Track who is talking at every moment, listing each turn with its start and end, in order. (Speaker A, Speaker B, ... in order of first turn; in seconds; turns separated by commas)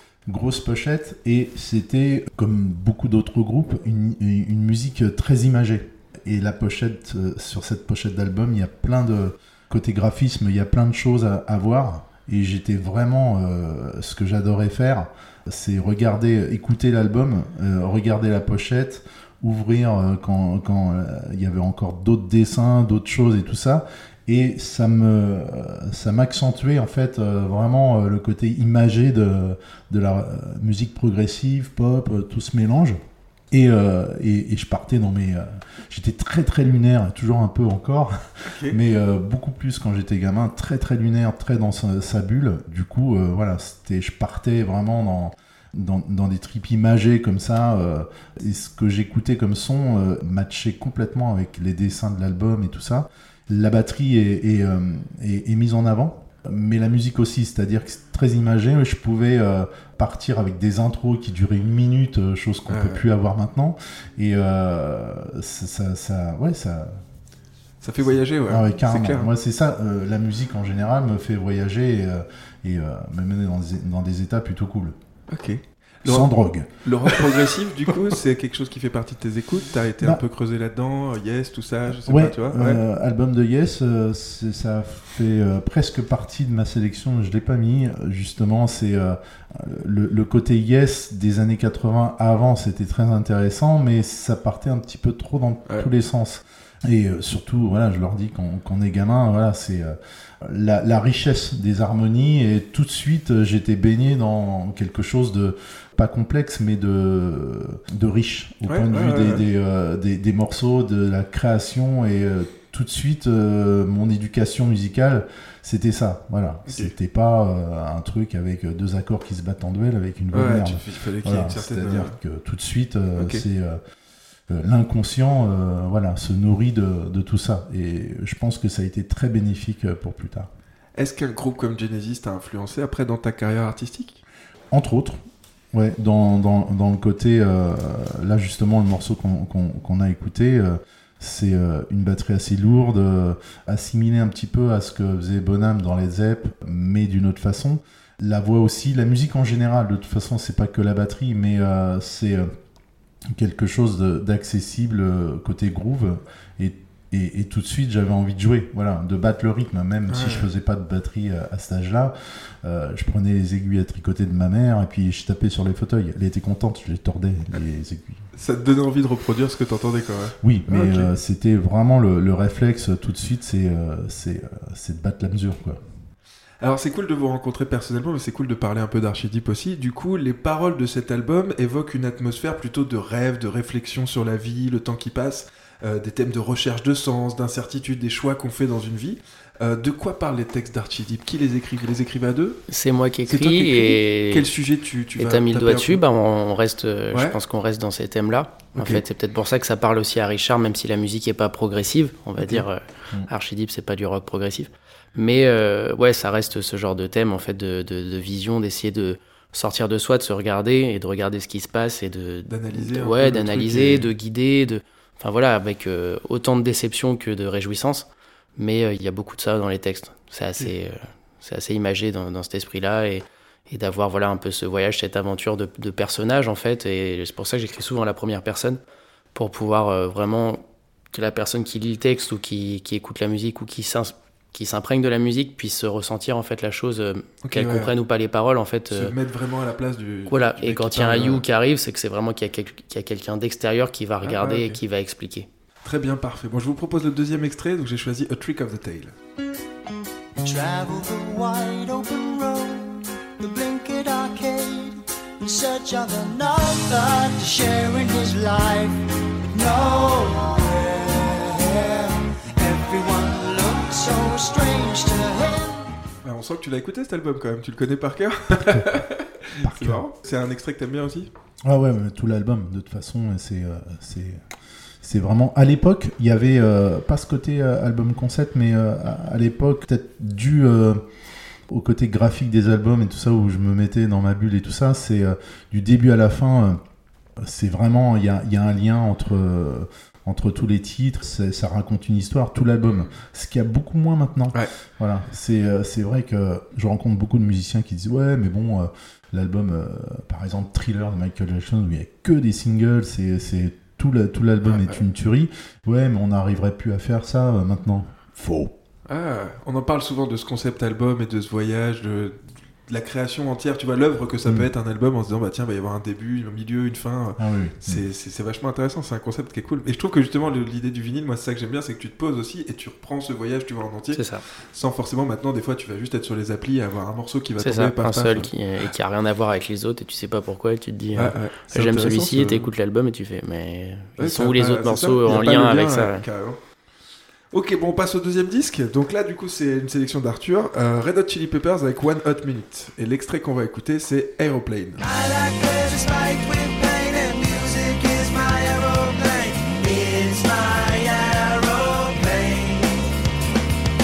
Speaker A: 0.3-33.0, Speaker A: 33.5-67.0, Speaker B: 38.5-38.8, Speaker B: 62.7-63.0, Speaker B: 67.8-69.3, Speaker A: 68.5-75.0, Speaker B: 75.3-76.3, Speaker A: 76.0-77.4, Speaker B: 76.8-82.8, Speaker A: 81.9-123.8, Speaker B: 108.7-109.4, Speaker B: 116.7-116.9, Speaker B: 120.3-122.1, Speaker B: 123.2-123.4, Speaker A: 124.5-130.5, Speaker B: 130.9-134.2, Speaker A: 134.7-135.2, Speaker A: 135.7-152.5, Speaker A: 153.3-168.2, Speaker B: 160.1-160.5, Speaker B: 168.3-171.1, Speaker A: 170.4-175.8, Speaker B: 176.6-192.6, Speaker C: 192.7-194.5, Speaker B: 193.2-196.0, Speaker C: 195.2-228.8, Speaker B: 197.1-197.4, Speaker B: 198.8-199.0, Speaker B: 202.4-202.7, Speaker B: 212.5-214.1, Speaker C: 229.3-239.1, Speaker B: 237.4-237.9, Speaker B: 238.9-241.4, Speaker C: 240.3-245.5, Speaker B: 244.2-244.8, Speaker B: 245.8-249.1, Speaker D: 250.4-265.9, Speaker B: 266.2-271.3, Speaker A: 268.5-268.9, Speaker A: 269.6-270.0, Speaker A: 271.6-274.4, Speaker A: 275.0-281.0, Speaker A: 281.7-286.8, Speaker A: 287.4-308.7, Speaker B: 304.6-305.0, Speaker B: 309.1-328.5, Speaker A: 317.4-318.1, Speaker C: 324.1-324.4, Speaker C: 327.6-336.2, Speaker B: 331.1-332.7, Speaker B: 334.2-336.6, Speaker B: 337.5-345.0, Speaker D: 345.0-353.1